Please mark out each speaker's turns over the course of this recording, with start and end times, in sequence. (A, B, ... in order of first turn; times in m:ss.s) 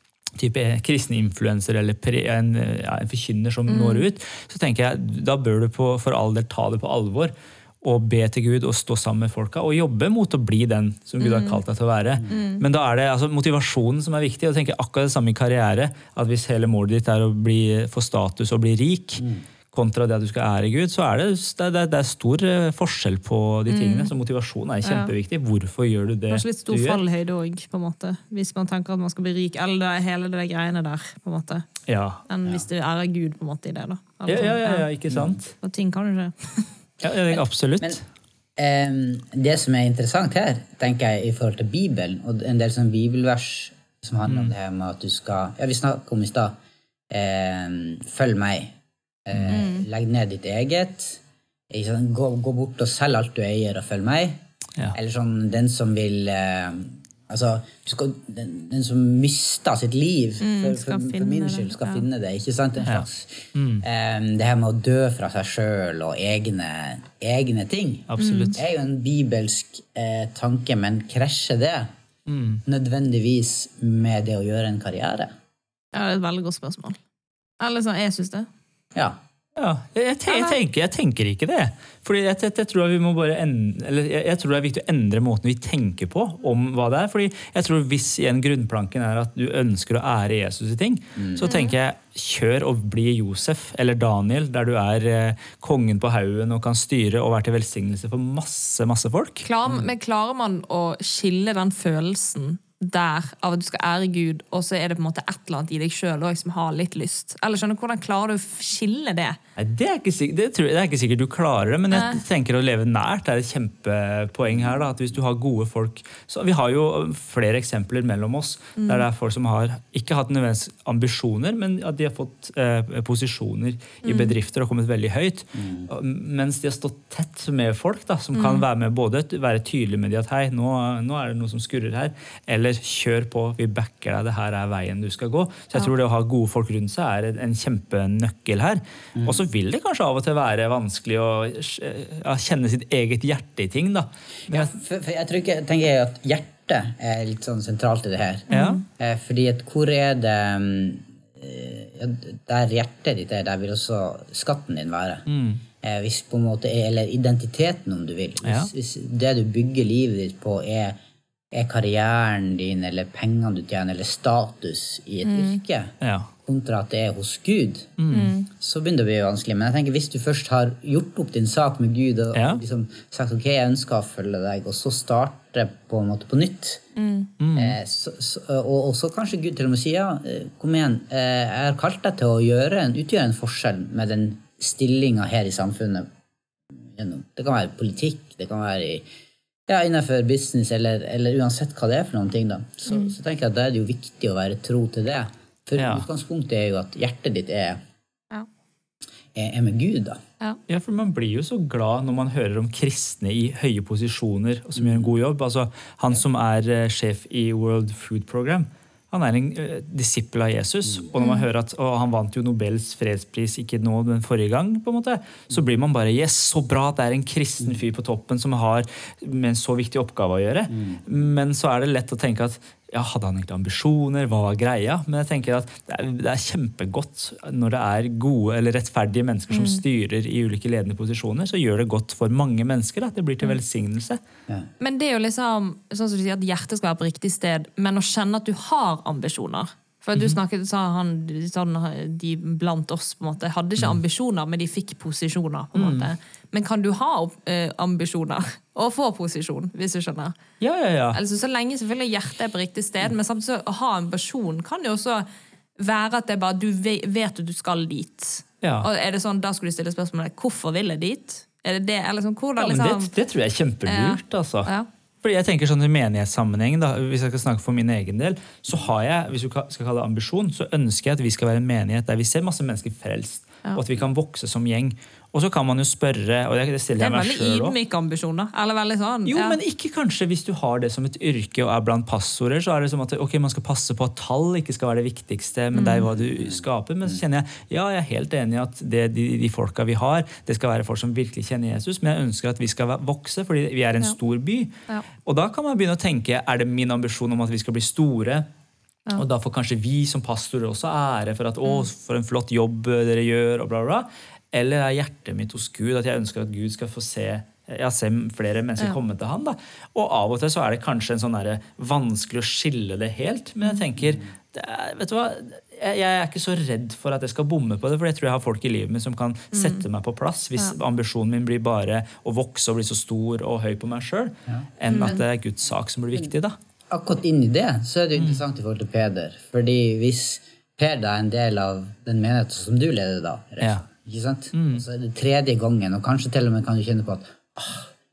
0:00.4-0:27.0 A
0:03.7-0:04.1 B
0:11.2-0:11.6 B
0:12.3-0:12.6 B
0:19.2-0:19.4 C
0:23.7-0:24.1 B
0:24.8-0:25.1 B
0:26.3-0:31.7 B
0:31.9-0:32.2 A
0:32.3-0:34.9 B
0:34.3-0:35.5 A
0:35.1-0:35.4 C
0:35.6-0:36.7 B
0:37.0-0:38.0 A
0:38.6-0:46.6 C
0:47.1-0:48.8 C
0:49.3-0:54.4 C
0:49.5-0:49.9 B
0:54.9-1:11.9 C
1:00.4-1:02.0 B
1:02.8-1:03.8 A
1:08.1-1:08.6 A
1:08.2-1:08.6 B
1:12.3-1:12.6 A
1:12.6-1:15.3 C
1:15.9-1:17.0 B
1:17.6-1:18.5 B
1:19.6-1:39.5 A
1:20.3-1:20.6 B
1:31.2-1:31.5 C
1:31.4-1:31.8 B
1:39.4-1:49.4 B
1:49.6-2:24.7 A
1:51.9-1:52.2 B
1:58.8-1:59.0 B
2:04.0-2:04.4 B
2:05.5-2:05.9 C
2:08.4-2:08.6 B
2:19.2-2:19.4 C
2:24.5-2:28.5 C
2:28.5-2:28.8 A
2:28.5-2:28.8 B
2:29.0-2:35.3 C
2:35.3-2:35.6 A
2:35.8-2:41.0 C
2:38.4-2:38.7 A
2:41.5-2:48.0 C
2:45.3-2:45.6 B
2:46.0-2:46.3 A
2:48.0-2:48.4 A
2:48.1-2:48.5 B
2:48.5-2:56.8 C
2:52.3-2:52.6 A
2:57.0-2:57.3 B
2:57.4-2:57.8 A
2:57.6-3:06.1 C
3:06.9-3:09.0 C
3:09.7-3:17.8 C
3:15.8-3:16.1 A
3:19.4-3:20.2 C
3:20.7-3:54.2 A
3:24.8-3:25.1 C
3:31.2-3:31.5 B
3:40.7-3:41.0 C
3:49.5-3:49.8 B
3:54.8-4:10.4 B
4:05.8-4:06.1 A
4:10.6-4:11.2 A
4:11.1-4:15.3 B
4:15.8-4:23.1 B
4:18.6-4:18.9 A
4:22.6-4:24.7 A
4:23.8-4:24.9 B
4:25.2-4:37.8 A
4:37.0-4:39.6 B
4:39.2-4:54.7 A
4:45.7-4:46.1 B
4:55.2-4:58.5 A
4:59.1-5:26.6 A
5:19.5-5:19.8 B
5:24.5-5:25.1 C
5:24.9-5:25.2 B
5:26.9-5:37.9 C
5:34.5-5:34.8 A